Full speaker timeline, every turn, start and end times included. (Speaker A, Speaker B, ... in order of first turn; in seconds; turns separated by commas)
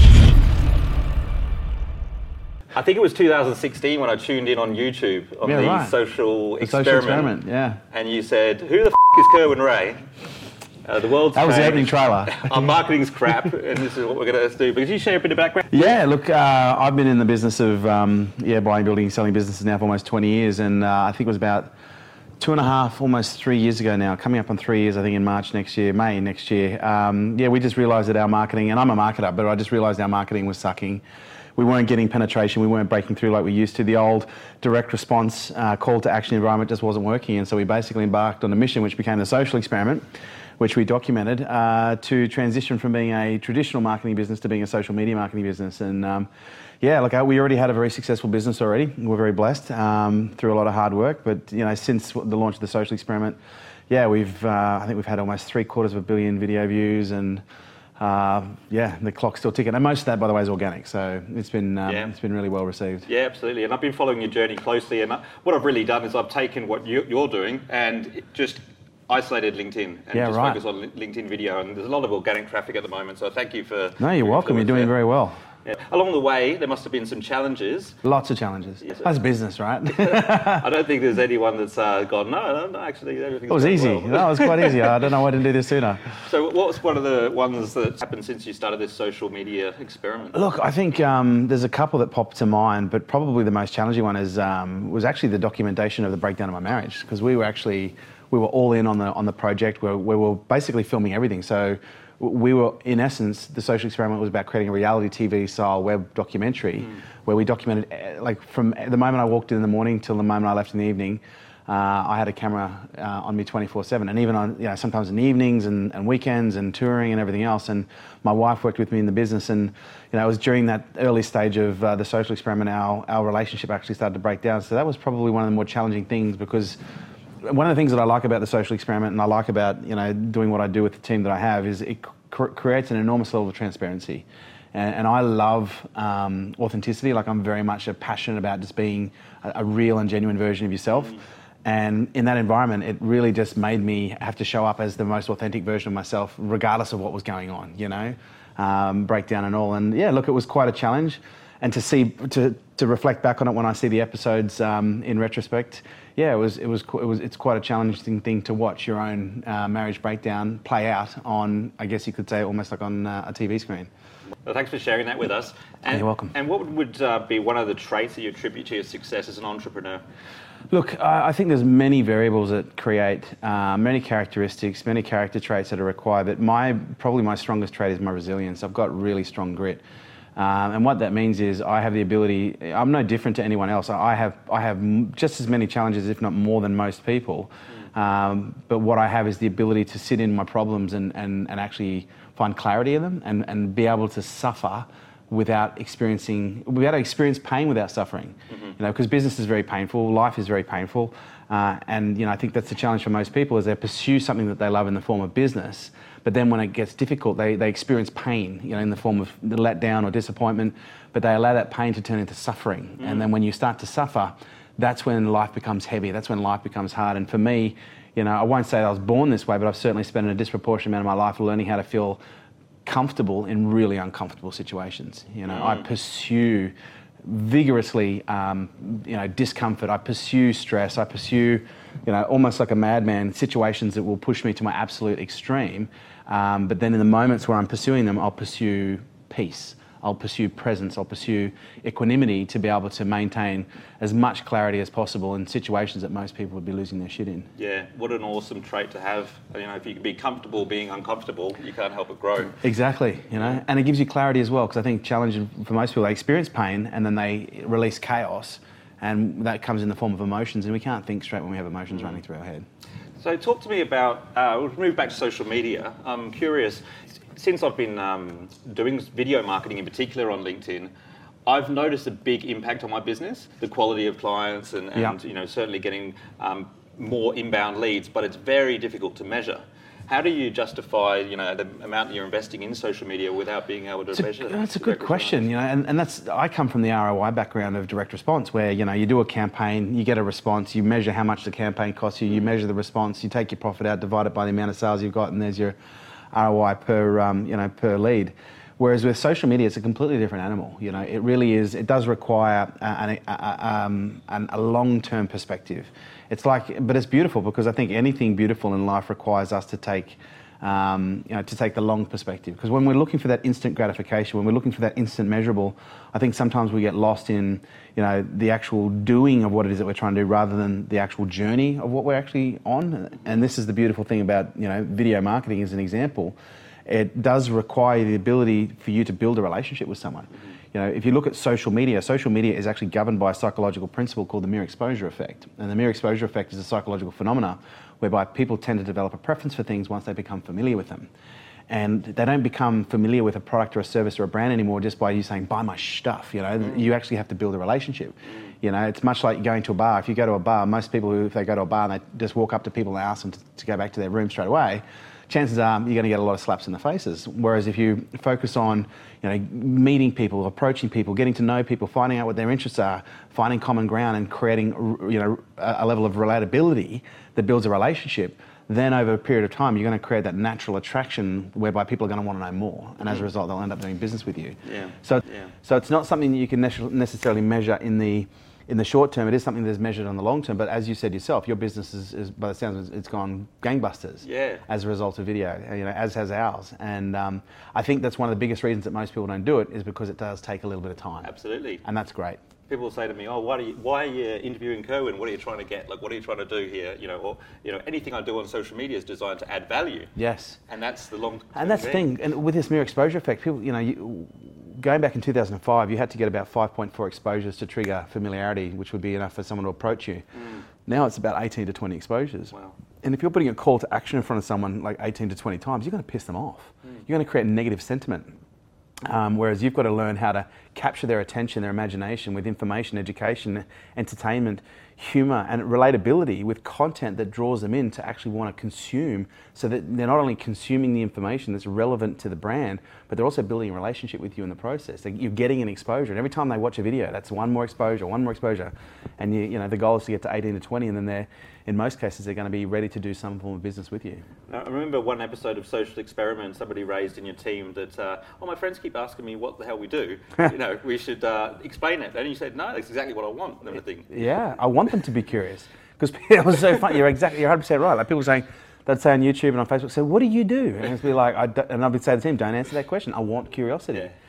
Speaker A: 2.7-7.3, Speaker B: 5.4-5.9, Speaker B: 6.6-7.8, Speaker A: 7.9-10.0, Speaker A: 10.8-15.9, Speaker B: 11.3-12.5, Speaker B: 15.7-21.7, Speaker B: 22.4-31.0, Speaker B: 31.6-40.0, Speaker B: 40.6-46.3, Speaker B: 46.8-53.4, Speaker B: 53.9-57.4, Speaker B: 58.0-63.1, Speaker A: 61.9-62.1, Speaker A: 63.1-74.9, Speaker B: 70.1-70.6, Speaker B: 74.0-75.4, Speaker A: 75.6-78.0, Speaker B: 78.0-80.7, Speaker A: 78.8-79.1, Speaker A: 79.9-84.9, Speaker B: 83.5-86.0, Speaker A: 86.2-90.4, Speaker B: 90.3-126.8, Speaker B: 127.4-163.9, Speaker A: 164.4-170.0, Speaker B: 165.9-166.3, Speaker B: 170.7-179.8, Speaker B: 180.3-222.2, Speaker A: 198.5-198.7, Speaker A: 213.0-213.3, Speaker B: 222.8-247.5, Speaker A: 225.4-225.8, Speaker A: 247.6-252.6, Speaker B: 252.6-262.6, Speaker A: 253.4-253.6, Speaker A: 261.9-262.2, Speaker A: 263.2-270.9, Speaker A: 271.4-285.5, Speaker B: 284.1-295.8, Speaker B: 296.3-341.1, Speaker B: 341.7-391.3, Speaker A: 374.6-375.5, Speaker A: 384.2-384.6, Speaker A: 391.2-391.8, Speaker B: 391.8-392.4, Speaker A: 392.7-400.1, Speaker B: 400.1-400.6, Speaker A: 400.7-402.1, Speaker B: 401.6-418.4, Speaker B: 419.1-444.2, Speaker A: 444.5-454.1, Speaker B: 454.1-464.1